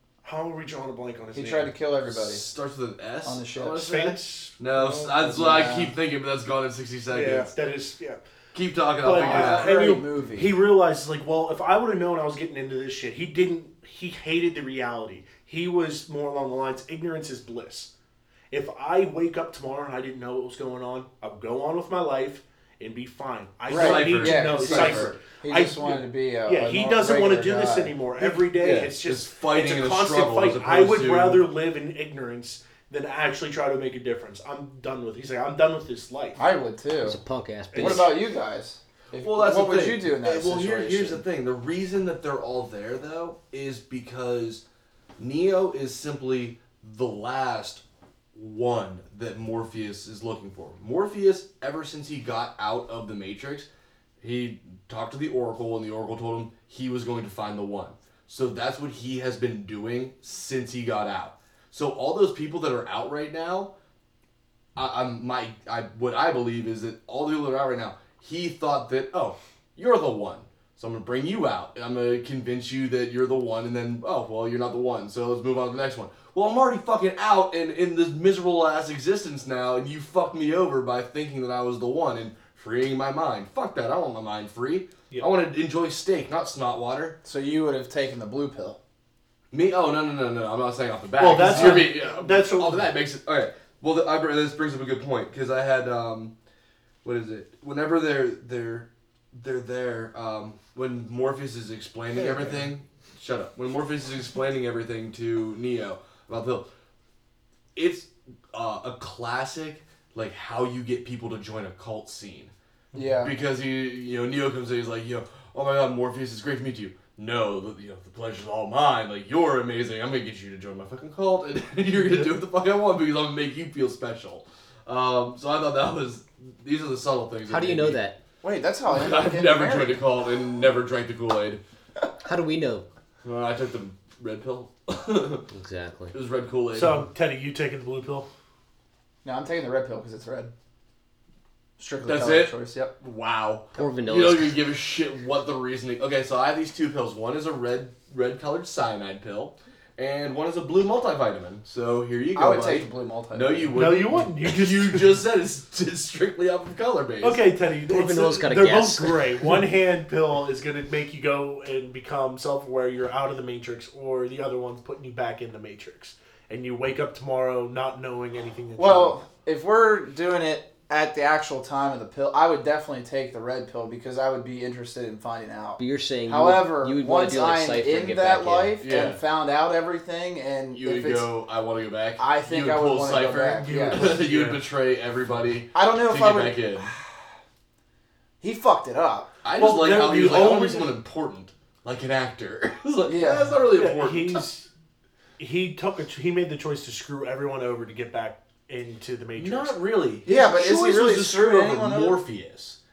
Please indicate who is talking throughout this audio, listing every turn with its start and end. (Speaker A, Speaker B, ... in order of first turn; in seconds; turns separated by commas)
Speaker A: 0.2-1.7, Speaker B: 1.3-2.5, Speaker C: 2.0-7.5, Speaker B: 3.2-3.9, Speaker A: 3.7-5.8, Speaker B: 5.2-5.9, Speaker A: 7.1-8.2, Speaker C: 8.5-9.7, Speaker A: 9.0-17.9, Speaker B: 9.1-10.5, Speaker A: 18.5-36.4, Speaker B: 23.7-28.4, Speaker C: 23.7-25.1, Speaker C: 28.5-31.5, Speaker B: 36.4-37.2, Speaker D: 37.0-38.2, Speaker A: 37.7-38.1, Speaker B: 37.7-41.2, Speaker C: 39.1-44.6, Speaker C: 45.2-47.8, Speaker C: 48.3-53.7, Speaker C: 54.2-63.7, Speaker C: 64.8-87.2, Speaker B: 87.2-88.8, Speaker C: 89.5-96.3, Speaker A: 91.2-92.9, Speaker B: 91.5-91.8, Speaker C: 97.0-106.7, Speaker A: 102.1-102.7, Speaker C: 107.7-112.5, Speaker B: 112.9-113.3, Speaker C: 113.2-128.0, Speaker A: 122.0-122.3, Speaker D: 127.5-128.2, Speaker B: 128.4-130.0, Speaker C: 128.9-131.6, Speaker D: 132.2-132.8, Speaker C: 133.2-135.5, Speaker D: 135.5-136.1, Speaker C: 136.1-137.0, Speaker A: 136.7-138.3, Speaker B: 139.2-140.5, Speaker B: 141.8-142.9, Speaker C: 142.1-157.4, Speaker D: 143.8-144.6, Speaker B: 152.3-153.8, Speaker A: 153.7-155.2, Speaker A: 157.2-169.2, Speaker D: 157.8-159.6, Speaker B: 168.8-181.3, Speaker D: 175.8-178.8, Speaker C: 178.8-179.2, Speaker C: 180.7-186.9, Speaker B: 182.2-184.2, Speaker A: 183.6-184.6, Speaker B: 185.7-187.3, Speaker B: 188.4-189.3, Speaker C: 189.4-194.5, Speaker A: 189.6-190.9, Speaker B: 193.1-193.6, Speaker A: 193.7-194.7, Speaker A: 195.4-199.8, Speaker C: 199.3-202.8, Speaker B: 200.2-202.2